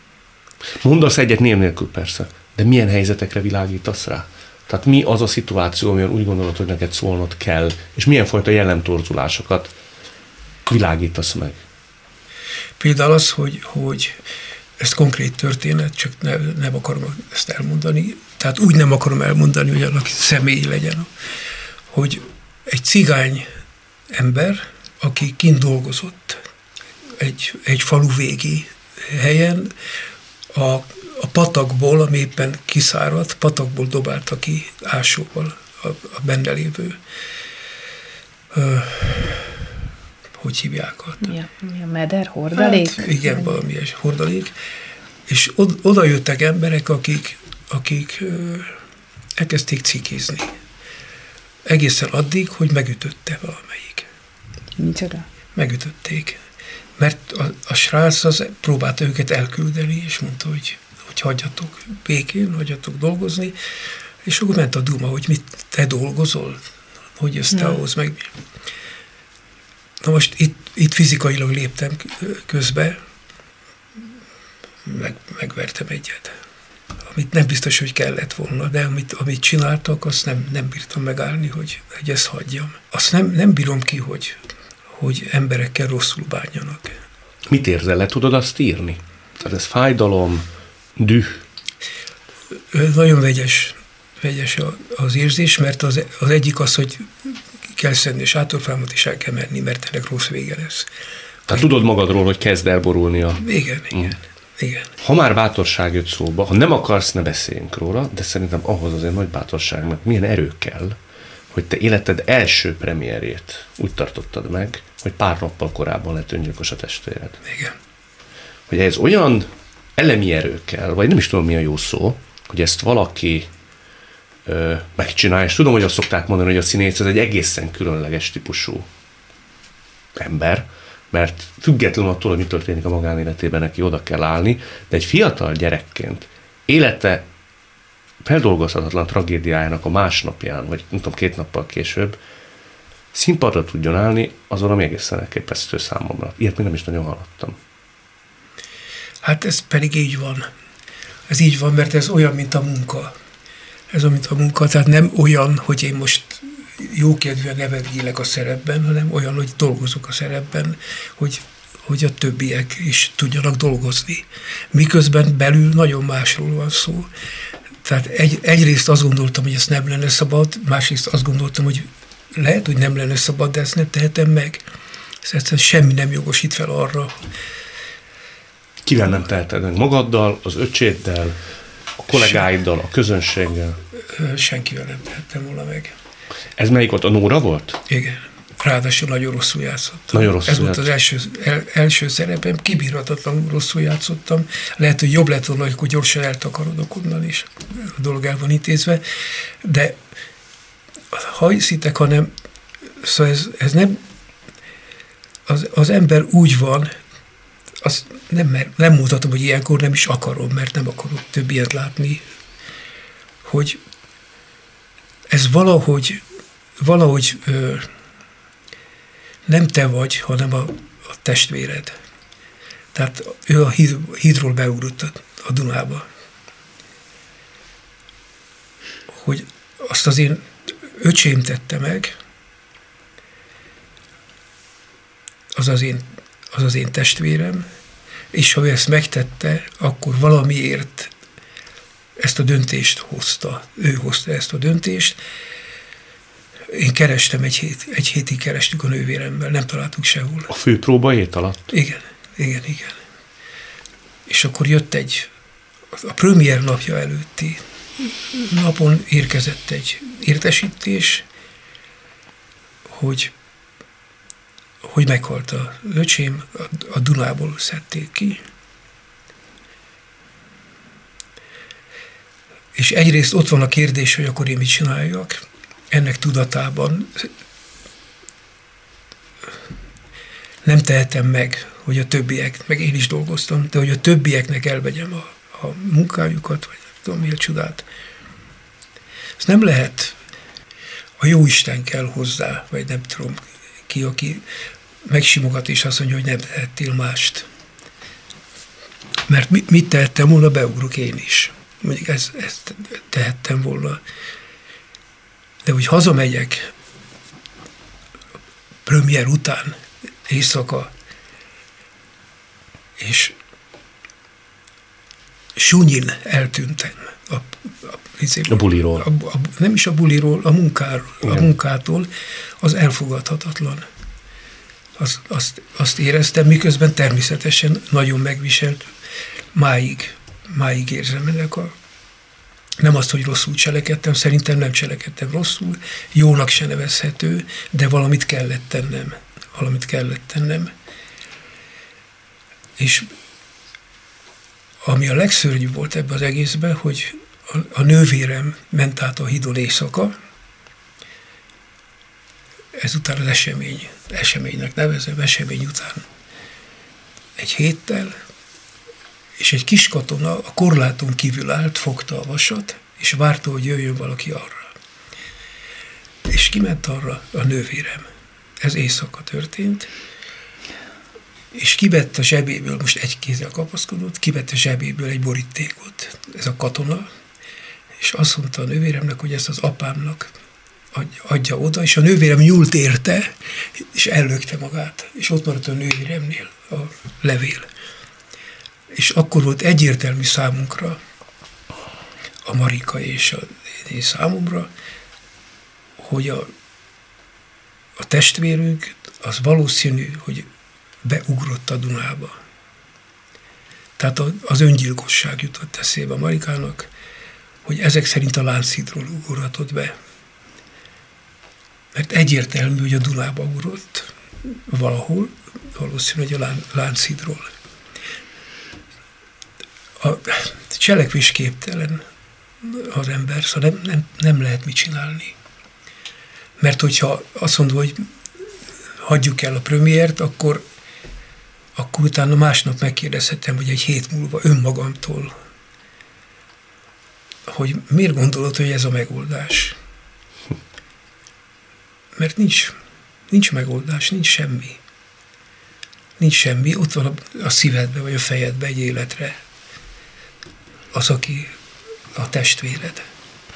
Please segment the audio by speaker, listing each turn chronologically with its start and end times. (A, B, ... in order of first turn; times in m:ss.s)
0:00.8-0:09.7 A
0:10.7-0:11.6 A
0:12.8-0:14.2 B
0:14.8-0:21.1 B
0:21.9-0:23.4 B
0:24.1-0:26.4 B
0:27.2-0:29.7 B
0:30.5-0:37.0 B
0:38.5-0:39.6 B
0:40.4-0:41.3 B
0:41.2-0:43.6 C
0:42.5-0:44.5 B
0:45.3-0:48.7 B
0:49.4-0:50.5 B
0:51.6-0:54.1 B
0:54.8-0:55.2 C
0:55.5-0:56.4 B
0:57.0-1:03.5 B
1:04.2-1:06.6 B
1:07.2-1:08.3 B
1:10.0-1:13.0 B
1:14.8-1:16.3 B
1:17.1-1:24.4 B
1:24.9-1:26.9 B
1:27.5-1:30.4 A
1:31.0-1:31.4 A
1:32.7-1:40.9 B
1:41.5-1:44.2 A
1:43.4-1:44.9 B
1:45.0-1:51.0 A
1:51.5-1:57.4 A
1:57.4-1:57.7 B
1:58.7-2:03.5 A
2:04.4-2:08.9 A
2:10.2-2:17.2 A
2:18.2-2:22.2 A
2:23.1-2:27.6 A
2:29.2-2:30.4 B
2:31.3-2:33.1 B
2:33.9-2:47.1 B
2:47.8-2:54.6 B
2:55.2-2:57.3 B
2:58.8-3:01.4 A
3:02.0-3:03.8 A
3:04.1-3:05.9 B
3:06.6-3:07.8 A
3:07.9-3:19.0 B
3:10.1-3:10.8 A
3:19.6-3:20.0 B
3:21.1-3:22.3 B
3:23.0-3:24.0 B
3:25.4-3:26.9 B
3:27.8-3:32.2 B
3:33.4-3:33.8 B
3:35.3-3:36.2 B
3:36.8-3:37.9 B
3:39.5-3:41.9 B
3:42.9-3:46.0 B
3:49.1-3:52.1 B
3:55.5-3:57.6 B
3:58.3-4:01.1 B
4:02.2-4:05.2 B
4:06.7-4:10.5 B
4:10.5-4:11.7 A
4:11.7-4:13.0 B
4:14.3-4:15.3 B
4:15.9-4:21.2 B
4:22.9-4:23.3 B
4:24.8-4:28.4 B
4:32.7-4:37.3 B
4:40.6-4:47.8 B
4:49.4-4:50.2 B
4:51.2-4:54.4 B
4:55.0-4:57.5 B
4:59.3-5:04.0 B
5:05.6-5:06.7 B
5:08.8-5:10.9 B
5:13.0-5:13.3 B
5:15.6-5:22.1 B
5:18.5-5:19.0 A
5:22.6-5:23.8 B
5:25.0-5:28.8 B
5:29.5-5:31.7 B
5:32.8-5:40.7 B
5:42.8-5:43.1 B
5:44.8-5:50.1 B
5:52.7-5:56.0 B
5:57.4-5:58.1 B
5:59.4-6:04.7 B
6:06.2-6:08.1 B
6:08.6-6:09.9 B
6:11.5-6:17.0 B
6:18.0-6:20.3 B
6:20.9-6:27.6 B
6:28.9-6:31.0 B
6:32.4-6:34.7 B
6:36.0-6:36.5 B
6:38.0-6:40.5 B
6:41.0-6:42.3 B
6:44.0-6:46.9 B
6:47.6-6:49.9 B
6:51.9-6:57.5 B
7:00.0-7:02.0 B
7:02.6-7:05.4 B
7:06.6-7:08.1 B
7:09.0-7:10.6 B
7:11.7-7:15.3 B
7:17.5-7:19.8 B
7:22.2-7:22.7 B
7:23.3-7:24.8 B
7:26.2-7:29.4 B
7:30.9-7:31.5 B
7:32.1-7:33.0 B